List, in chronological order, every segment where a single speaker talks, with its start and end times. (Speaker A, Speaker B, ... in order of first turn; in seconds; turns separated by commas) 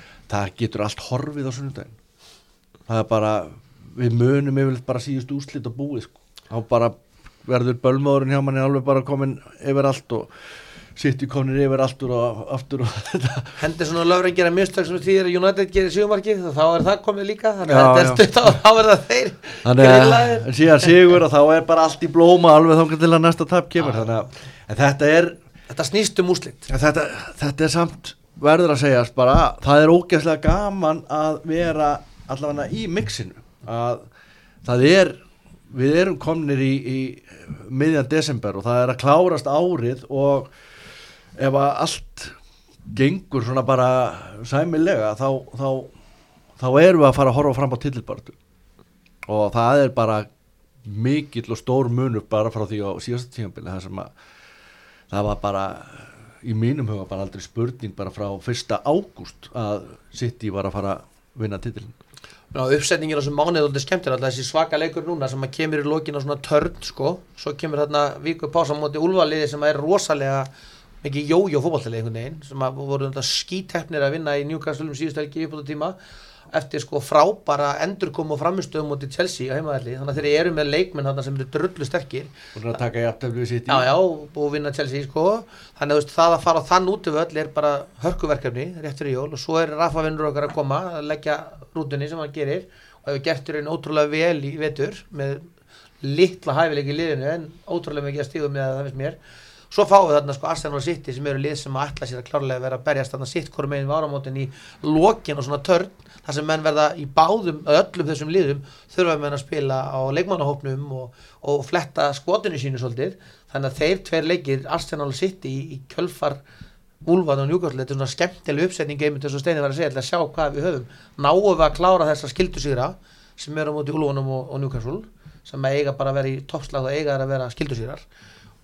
Speaker A: 0.3-1.9, Speaker A: 2.9-10.3, Speaker A: 10.9-13.6, Speaker B: 13.6-20.5, Speaker A: 17.6-18.2, Speaker A: 19.6-25.4, Speaker B: 25.7-26.7, Speaker A: 26.7-34.0, Speaker A: 34.6-40.5, Speaker A: 41.4-42.4, Speaker A: 42.9-45.9, Speaker A: 46.6-48.4, Speaker A: 49.2-50.3, Speaker A: 50.8-54.1, Speaker A: 55.1-61.9, Speaker B: 62.5-70.5, Speaker B: 71.0-76.0, Speaker B: 76.5-82.3, Speaker A: 82.5-83.9, Speaker B: 83.7-95.5, Speaker B: 96.0-99.2, Speaker B: 99.7-116.4, Speaker B: 117.0-128.0